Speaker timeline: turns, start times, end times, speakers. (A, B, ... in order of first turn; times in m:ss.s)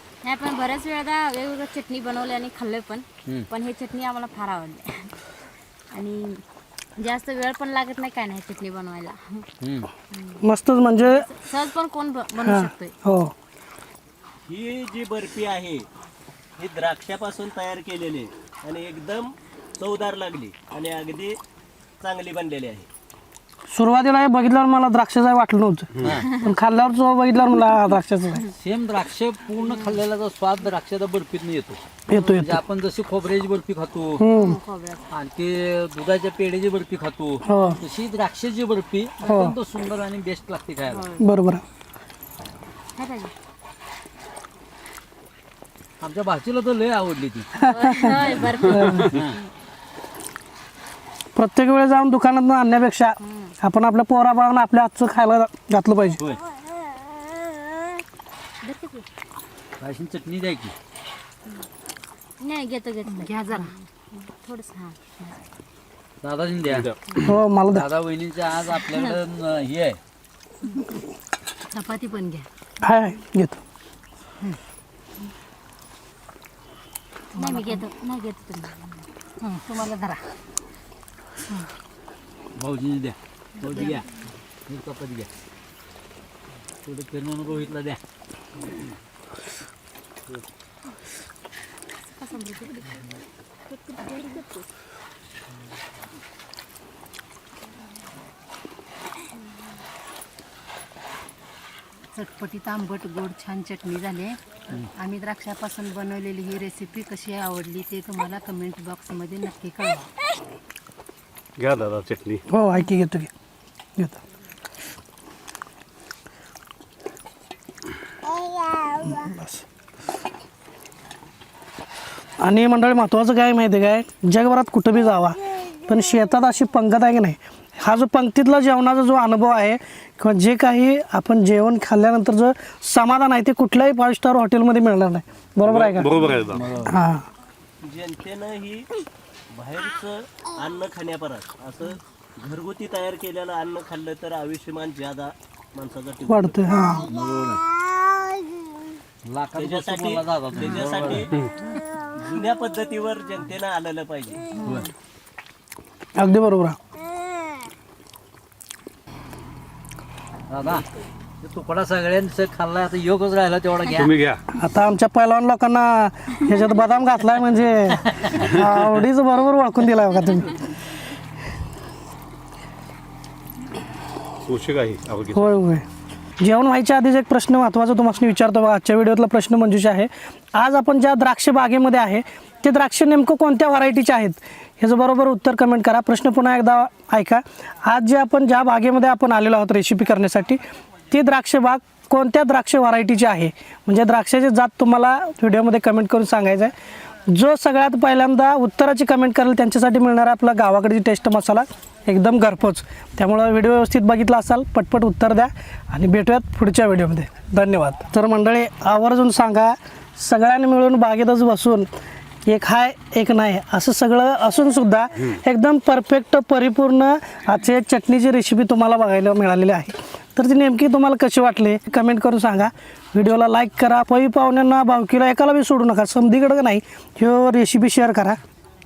0:00.2-0:05.1 A
0:05.9-0:06.4 A
0:07.0-0:09.4 A
0:09.6-0:09.9 B
0:10.1-0:10.4 A
0:10.4-0:11.2 C
0:11.0-0:12.9 A
0:12.4-0:13.3 C
0:14.5-0:15.8 D
0:16.6-0:19.3 D
0:19.8-0:21.4 D
0:22.0-0:22.9 D
0:23.7-0:28.5 C
0:26.0-0:26.4 B
0:28.5-0:31.8 B
0:32.1-0:32.6 C
0:32.3-0:34.2 B
0:34.2-0:34.6 C
0:34.4-0:35.0 A
0:35.1-0:41.1 B
0:37.4-0:37.8 C
0:39.2-0:39.6 C
0:40.9-0:41.2 A
0:41.2-0:41.6 C
0:43.0-0:43.3 A
0:46.0-0:49.4 B
0:47.6-0:49.1 C
0:47.7-0:49.1 A
0:51.3-0:56.2 C
0:53.2-0:53.5 A
0:58.6-0:59.0 A
0:59.8-1:00.7 B
1:02.4-1:05.4 A
1:03.1-1:03.6 E
1:06.2-1:06.9 B
1:07.2-1:07.9 C
1:07.7-1:10.0 B
1:11.8-1:12.2 A
1:12.0-1:12.4 E
1:12.8-1:13.6 C
1:17.4-1:18.6 A
1:17.4-1:17.8 E
1:19.8-1:20.2 E
1:22.6-1:24.1 B
1:24.7-1:25.3 B
1:26.8-1:28.0 B
1:32.2-1:32.8 A
1:42.2-1:44.4 E
1:45.0-1:50.1 E
1:51.6-1:52.4 F
1:52.5-1:53.3 C
1:59.0-1:59.6 C
2:02.4-2:16.3 C
2:15.6-2:16.6 F
2:16.4-2:16.9 B
2:16.8-2:17.2 C
2:17.8-2:18.8 D
2:19.5-2:26.5 D
2:26.3-2:27.0 C
2:27.0-2:27.6 B
2:29.2-2:31.3 B
2:30.1-2:31.2 D
2:32.2-2:34.4 D
2:34.6-2:34.9 B
2:36.2-2:36.8 C
2:40.5-2:40.8 B
2:41.4-2:44.2 B
2:44.0-2:44.4 F
2:44.5-2:50.6 C
2:54.4-2:55.5 F
2:55.3-2:55.8 C
2:56.4-3:16.7 C
3:17.3-3:31.9 C
3:32.5-3:48.4 C